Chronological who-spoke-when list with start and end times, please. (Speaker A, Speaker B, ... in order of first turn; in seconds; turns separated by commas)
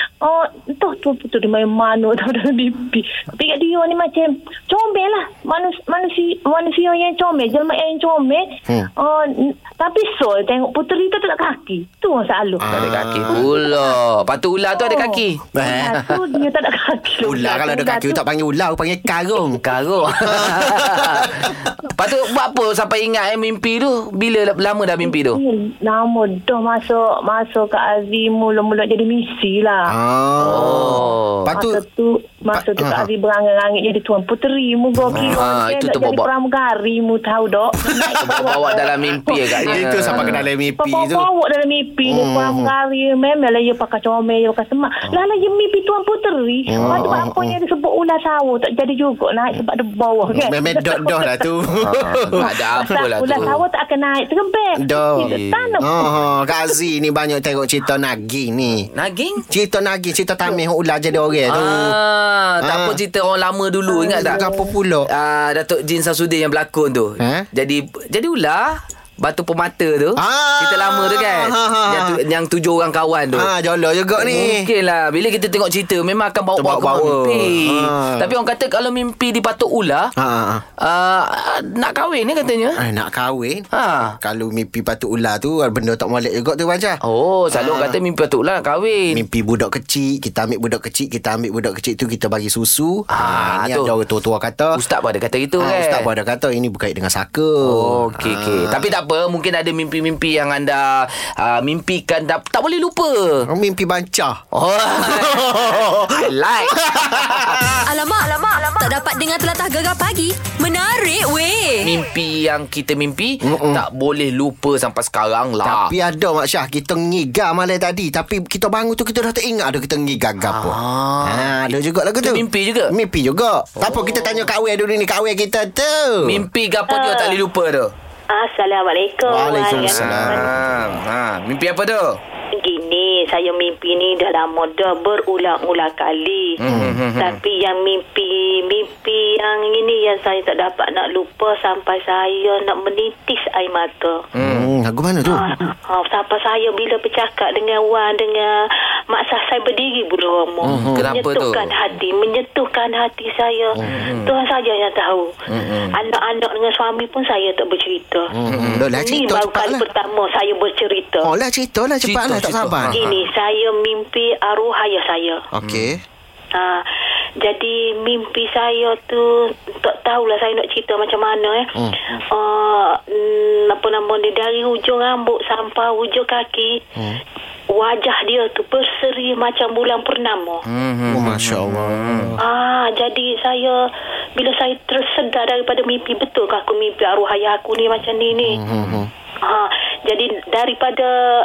Speaker A: 0.2-8.4, Speaker A: 9.0-12.7, Speaker B: 12.6-13.5, Speaker C: 12.7-16.2, Speaker A: 13.3-13.9, Speaker A: 14.7-18.2, Speaker B: 15.5-16.0, Speaker B: 17.2-19.6, Speaker C: 19.5-25.4, Speaker B: 20.2-21.5, Speaker A: 25.0-29.9, Speaker B: 29.9-31.8, Speaker C: 30.4-31.5, Speaker A: 30.6-51.4, Speaker B: 32.5-33.1, Speaker B: 35.0-35.4, Speaker C: 35.1-36.3, Speaker B: 38.0-41.3, Speaker C: 38.2-40.4, Speaker B: 42.0-42.7, Speaker B: 45.1-45.3, Speaker B: 46.7-47.6, Speaker C: 46.8-47.2, Speaker B: 50.3-53.5, Speaker C: 51.8-53.6, Speaker A: 52.3-56.0, Speaker B: 54.8-58.9, Speaker C: 55.2-56.3, Speaker C: 58.9-59.4, Speaker B: 59.5-62.0, Speaker A: 60.4-61.4, Speaker C: 61.5-64.4, Speaker B: 62.6-63.0, Speaker A: 63.9-64.7, Speaker B: 64.2-65.1, Speaker C: 65.1-73.5, Speaker B: 67.2-67.4, Speaker B: 70.2-72.2, Speaker B: 73.3-74.7, Speaker C: 74.2-80.1, Speaker B: 76.5-78.3, Speaker B: 80.2-80.6, Speaker C: 80.8-82.8, Speaker B: 82.8-83.7, Speaker C: 83.7-84.2, Speaker B: 84.2-87.0, Speaker C: 87.0-89.2, Speaker B: 87.5-88.0, Speaker B: 89.1-94.8, Speaker C: 93.1-93.9, Speaker C: 94.7-96.0, Speaker B: 95.6-98.9, Speaker C: 97.6-103.4, Speaker B: 103.4-104.4, Speaker C: 104.5-107.7, Speaker B: 105.0-107.6, Speaker D: 107.8-111.9, Speaker C: 111.8-115.9, Speaker B: 113.4-113.8, Speaker B: 115.6-126.4, Speaker C: 120.4-121.5, Speaker C: 122.2-122.9, Speaker C: 123.8-124.5, Speaker C: 126.2-127.9, Speaker E: 126.9-127.4, Speaker E: 128.3-130.5, Speaker B: 129.2-130.7, Speaker C: 129.7-132.2, Speaker E: 132.6-136.6, Speaker C: 136.6-137.4, Speaker B: 136.7-137.0, Speaker E: 137.2-144.2, Speaker C: 144.3-144.7, Speaker B: 144.4-145.4, Speaker E: 145.3-148.5, Speaker E: 149.1-155.3, Speaker B: 150.6-151.1, Speaker C: 150.7-151.7, Speaker B: 153.8-154.1, Speaker C: 153.9-154.3, Speaker C: 155.5-155.9, Speaker E: 155.9-158.3, Speaker B: 158.3-159.8, Speaker C: 158.5-158.9, Speaker E: 159.0-161.3, Speaker B: 161.2-163.0, Speaker C: 162.0-163.2, Speaker E: 162.9-165.4, Speaker B: 165.5-166.0, Speaker E: 166.5-166.8, Speaker E: 167.4-169.3, Speaker E: 169.8-171.7, Speaker E: 172.3-176.8, Speaker E: 177.7-180.6, Speaker C: 180.7-182.3, Speaker B: 181.1-182.4, Speaker E: 182.4-183.8, Speaker E: 184.3-188.6, Speaker B: 188.4-189.1, Speaker E: 189.4-191.1